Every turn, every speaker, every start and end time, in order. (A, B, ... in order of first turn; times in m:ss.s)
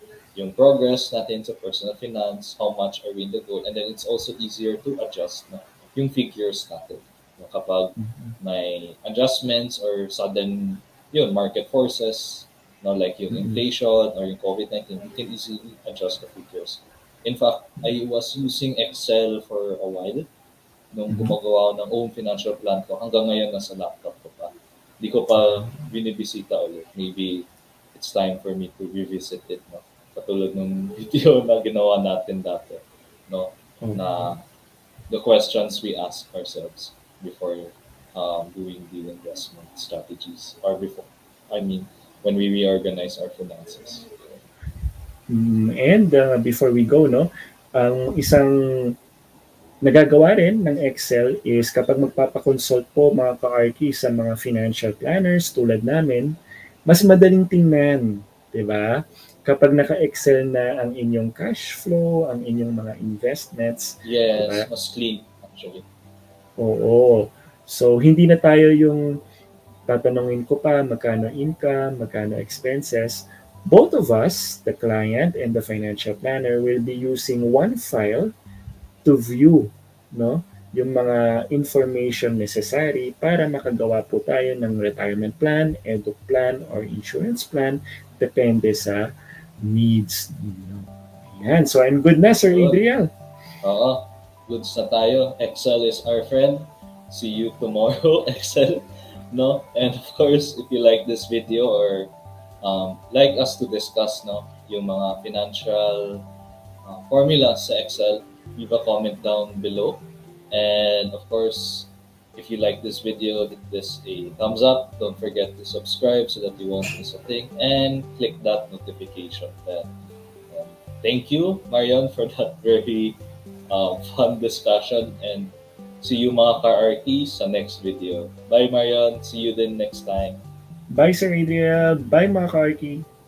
0:00.4-0:20.3 A
0:08.0-0:08.4 B
0:13.3-0:13.6 B
0:20.9-0:34.4 A
0:21.1-0:21.4 B
0:25.4-0:25.7 B
0:33.8-0:34.4 B
0:35.1-0:44.1 A
0:45.3-0:48.9 B
0:49.8-0:56.3 B
0:56.9-1:04.7 B
1:04.0-1:05.8 A
1:06.6-1:09.2 B
1:09.9-1:18.3 B
1:19.0-1:29.1 B
1:29.6-1:33.1 B
1:32.5-1:32.8 A
1:33.6-1:46.2 A
1:46.8-1:59.9 A
2:00.5-2:03.2 A
2:03.7-2:10.4 A
2:10.9-2:13.0 B